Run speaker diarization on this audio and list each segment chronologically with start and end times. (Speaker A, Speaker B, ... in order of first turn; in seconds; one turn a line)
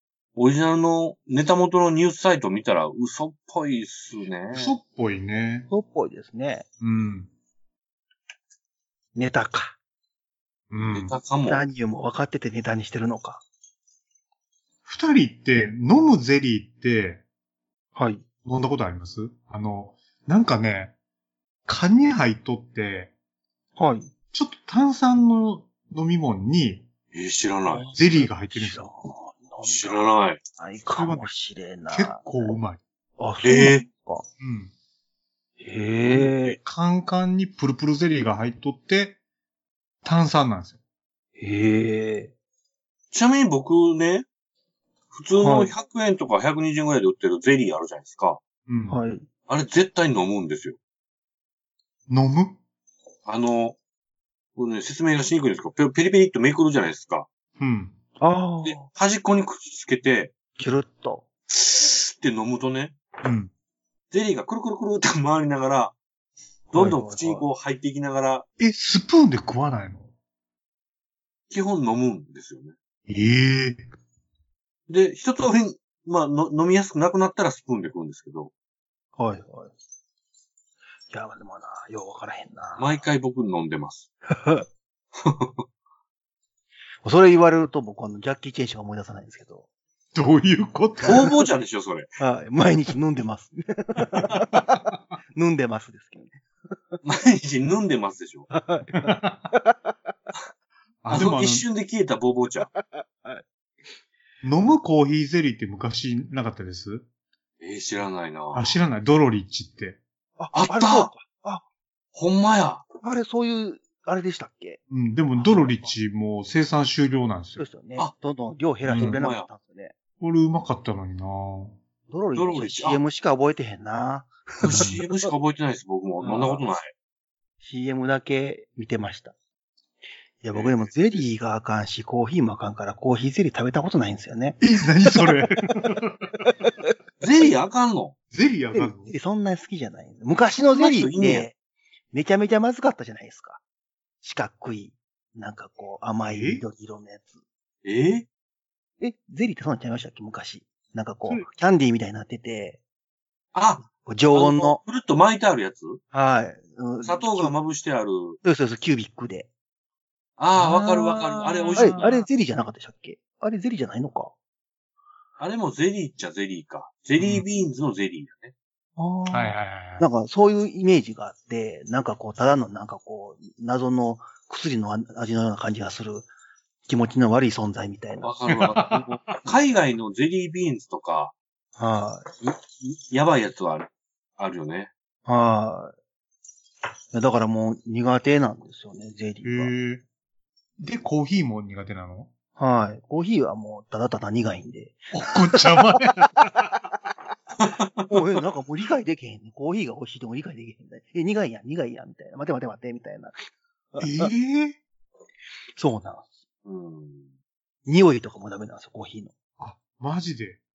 Speaker A: 0.3-4.7
Speaker B: 4.5-5.7
Speaker C: 5.7-6.7
Speaker B: 6.8-7.3
Speaker C: 9.2-9.8
Speaker B: 10.7-11.1
Speaker A: 10.9-11.6
Speaker C: 11.4-13.4
Speaker B: 14.8-17.2
Speaker C: 18.0-18.2
Speaker B: 18.4-20.9
Speaker B: 21.7-23.1
Speaker C: 23.8-24.1
Speaker B: 24.3-26.9
Speaker A: 27.1-27.9
Speaker C: 27.7-30.0
Speaker B: 27.9-28.9
Speaker A: 29.6-30.4
Speaker C: 30.6-32.6
Speaker B: 30.9-31.3
Speaker B: 31.9-32.8
Speaker C: 33.2-34.3
Speaker A: 33.4-33.9
Speaker B: 34.4-34.7
Speaker C: 35.6-36.6
Speaker A: 36.3-36.6
Speaker B: 36.6-39.2
Speaker B: 40.0-40.8
Speaker C: 41.4-42.3
Speaker A: 43.1-44.2
Speaker A: 45.1-48.4
Speaker C: 45.4-45.7
Speaker B: 48.7-49.0
Speaker C: 48.9-49.2
Speaker A: 49.5-50.8
Speaker B: 52.1-52.6
Speaker A: 53.3-53.8
Speaker A: 54.6-57.3
Speaker B: 57.6-57.9
Speaker C: 58.2-58.9
Speaker A: 58.6-60.3
Speaker C: 60.6-61.2
Speaker A: 61.5-63.0
Speaker B: 63.2-63.5
Speaker A: 64.1-66.0
Speaker A: 66.7-68.5
Speaker C: 66.7-67.5
Speaker B: 68.6-70.1
Speaker A: 71.5-72.7
Speaker B: 73.1-73.8
Speaker A: 74.9-78.5
Speaker C: 79.2-79.7
Speaker C: 81.1-83.0
Speaker A: 82.8-84.1
Speaker C: 84.3-84.7
Speaker A: 85.2-85.6
Speaker C: 87.0-89.7
Speaker B: 90.1-91.3
Speaker A: 91.0-92.1
Speaker C: 92.2-96.4
Speaker A: 97.0-98.5
Speaker C: 98.5-99.9
Speaker B: 99.0-99.5
Speaker B: 101.0-101.7
Speaker A: 101.1-102.7
Speaker C: 102.7-103.4
Speaker B: 104.4-107.1
Speaker A: 107.6-108.8
Speaker B: 108.5-110.0
Speaker C: 110.4-111.6
Speaker A: 110.5-111.1
Speaker A: 112.1-112.8
Speaker C: 113.0-114.8
Speaker B: 114.9-117.7
Speaker C: 115.4-115.9
Speaker C: 117.6-120.0
Speaker B: 118.8-119.2
Speaker A: 119.0-119.5
Speaker B: 120.2-121.8
Speaker C: 122.1-125.0
Speaker A: 122.3-123.0
Speaker A: 124.6-126.9
Speaker B: 124.7-124.9
Speaker C: 126.2-126.6
Speaker C: 127.6-129.3
Speaker C: 130.4-134.6
Speaker A: 130.5-131.2
Speaker B: 134.6-136.5
Speaker A: 137.2-138.2
Speaker B: 138.3-139.2
Speaker C: 138.7-141.6
Speaker A: 140.7-141.5
Speaker C: 142.1-143.6
Speaker C: 144.2-147.3
Speaker B: 146.3-146.7
Speaker A: 147.8-148.3
Speaker C: 149.0-152.8
Speaker A: 153.5-156.0
Speaker C: 154.0-154.8
Speaker C: 156.1-157.6
Speaker A: 157.0-158.4
Speaker C: 158.4-159.5
Speaker A: 160.4-162.2
Speaker B: 160.6-162.2
Speaker C: 161.8-164.3
Speaker A: 165.4-168.5
Speaker B: 167.2-167.4
Speaker C: 169.0-176.3
Speaker B: 169.3-170.1
Speaker C: 176.9-178.3
Speaker A: 178.2-181.3
Speaker B: 178.6-179.2
Speaker C: 181.8-182.3
Speaker A: 182.4-184.9
Speaker C: 185.3-185.9
Speaker C: 187.1-189.7
Speaker B: 189.4-190.0
Speaker B: 190.8-192.3
Speaker C: 192.6-196.5
Speaker B: 195.1-196.7
Speaker A: 197.6-198.1
Speaker C: 198.1-203.3
Speaker C: 203.9-204.3
Speaker B: 204.0-204.8
Speaker C: 205.8-206.3
Speaker A: 206.7-207.3
Speaker C: 207.9-209.3
Speaker B: 209.6-210.6